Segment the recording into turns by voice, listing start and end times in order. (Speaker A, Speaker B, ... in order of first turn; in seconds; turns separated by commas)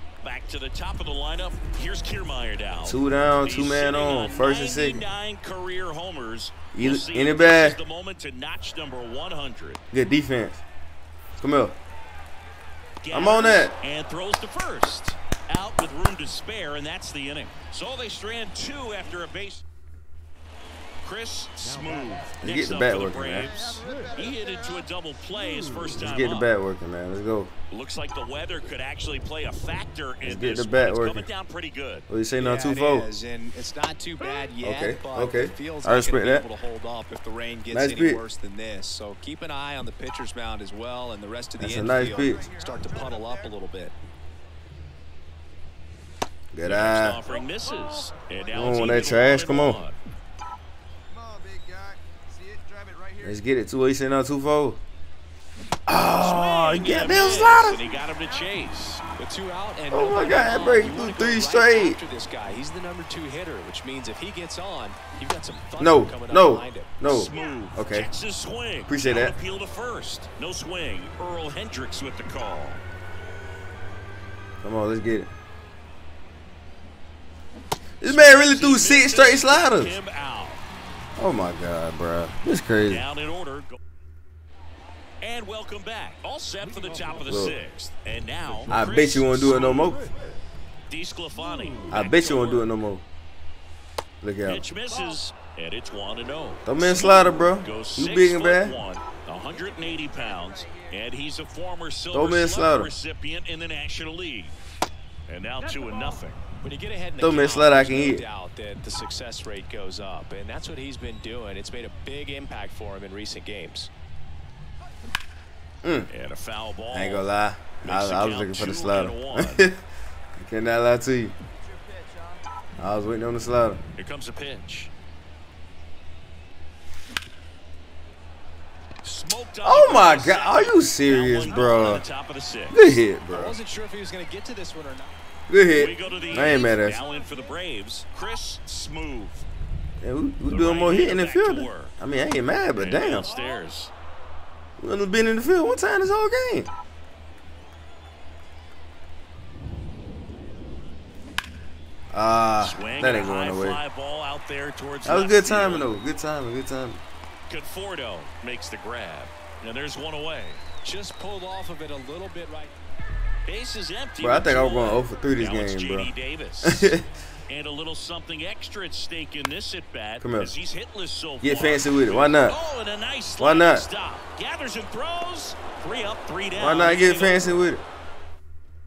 Speaker A: 0.2-9.8, Speaker B: 2.8-5.0, Speaker B: 6.7-7.8, Speaker B: 9.9-10.6, Speaker B: 11.4-11.7, Speaker A: 13.0-19.6, Speaker B: 13.1-13.7, Speaker A: 21.0-26.5, Speaker B: 22.4-23.5, Speaker C: 23.4-24.5, Speaker B: 25.9-27.5, Speaker A: 27.7-32.1, Speaker B: 30.2-31.3, Speaker B: 32.1-33.1, Speaker D: 32.4-43.9, Speaker B: 34.6-36.4, Speaker B: 37.7-38.2, Speaker B: 41.6-42.4, Speaker C: 42.0-43.5, Speaker B: 46.5-47.2, Speaker A: 46.6-50.0, Speaker B: 48.5-49.8, Speaker C: 51.1-53.4, Speaker B: 53.2-54.8, Speaker B: 55.9-57.8, Speaker A: 56.1-59.0, Speaker D: 59.2-66.9, Speaker B: 59.9-62.0, Speaker B: 65.8-68.1, Speaker A: 67.0-72.8, Speaker B: 68.9-69.4, Speaker B: 74.6-75.3, Speaker B: 78.0-79.9, Speaker A: 78.0-80.6, Speaker B: 81.2-83.0, Speaker A: 82.9-83.8, Speaker A: 85.2-90.0, Speaker B: 87.2-87.6, Speaker B: 88.7-90.1, Speaker A: 90.9-92.7, Speaker B: 91.9-93.0, Speaker B: 94.2-94.7, Speaker A: 94.4-104.5, Speaker B: 96.7-98.8, Speaker B: 102.1-102.9, Speaker A: 105.3-106.4, Speaker D: 106.6-113.9, Speaker B: 107.2-108.2, Speaker B: 115.8-116.1, Speaker A: 116.1-117.3, Speaker B: 116.9-119.8, Speaker A: 117.8-119.7, Speaker B: 120.4-121.3, Speaker B: 122.8-123.8, Speaker A: 124.0-124.9, Speaker A: 129.0-133.0, Speaker B: 129.6-132.1, Speaker B: 132.7-133.6, Speaker D: 133.3-135.1, Speaker B: 135.5-137.0, Speaker A: 135.7-139.4, Speaker B: 140.0-143.3, Speaker A: 140.5-141.9, Speaker A: 142.8-143.9, Speaker B: 144.8-146.7, Speaker B: 152.1-153.8, Speaker A: 152.6-155.9, Speaker B: 155.1-157.0, Speaker A: 157.5-160.6, Speaker D: 160.8-162.7, Speaker A: 163.4-177.6, Speaker B: 164.2-166.1, Speaker B: 166.6-167.1, Speaker B: 170.2-170.5, Speaker B: 171.4-172.6, Speaker B: 173.4-173.9, Speaker B: 176.6-177.8